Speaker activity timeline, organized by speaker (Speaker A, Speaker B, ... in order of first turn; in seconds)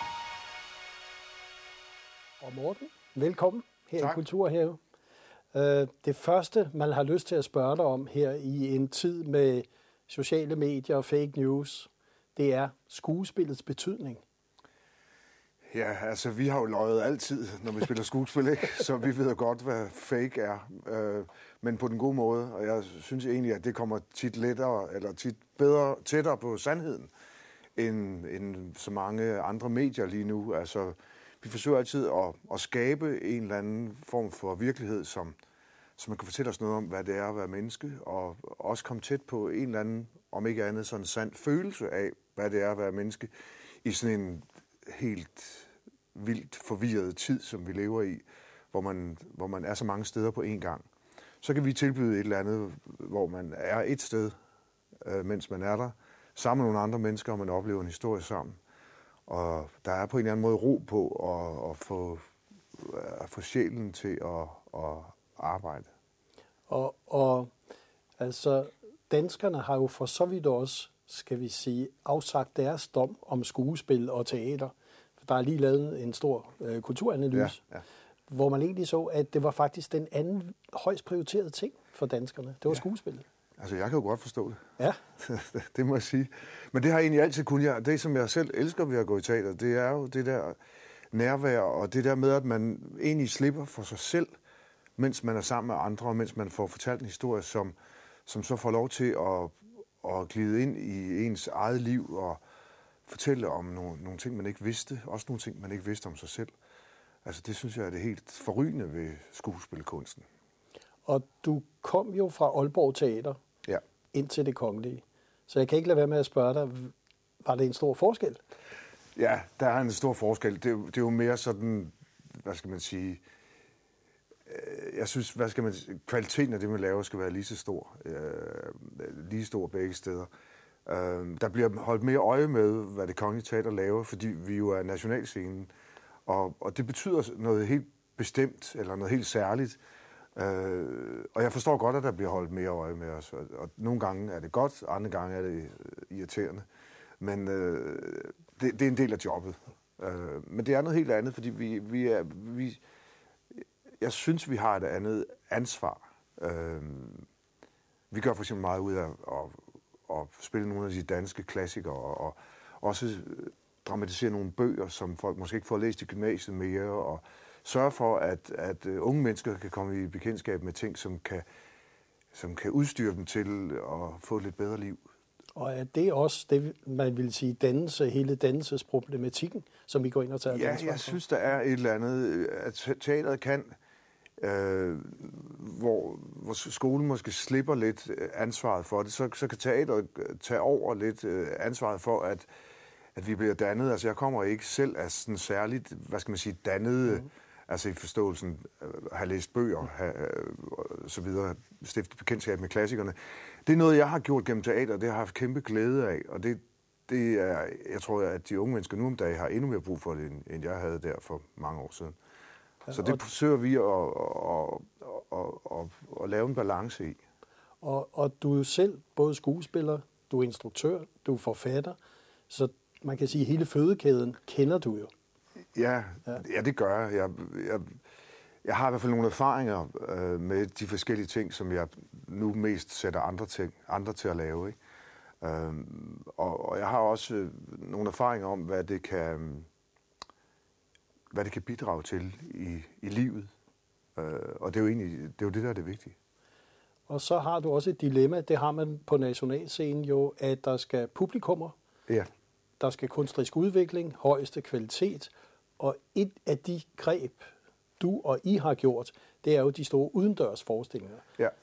Speaker A: 2.4-4.8, 5.5-14.2, 66.7-67.5, 68.2-77.6, 78.3-83.2, 111.1-113.4, 114.1-116.9, 117.4-118.4, 175.6-181.2, 217.8-222.0, 222.5-225.1, 247.1-251.7, 252.8-261.2
Speaker B: 15.7-27.1, 27.8-35.4, 36.0-43.3, 43.8-50.9, 51.4-54.4, 55.0-58.6, 59.3-65.9, 77.3-77.8, 83.6-90.6, 91.1-94.3, 95.0-97.7, 98.2-102.4, 103.1-106.5, 107.2-110.2, 119.1-123.2, 124.5-130.3, 130.8-135.7, 136.2-139.8, 140.3-146.7, 147.2-152.8, 153.6-157.3, 158.1-171.4, 172.3-175.0, 180.5-183.8, 184.4-192.5, 193.1-212.2, 212.9-217.2, 225.7-228.0, 228.6-234.8, 235.4-239.7, 241.3-243.5, 244.2-246.2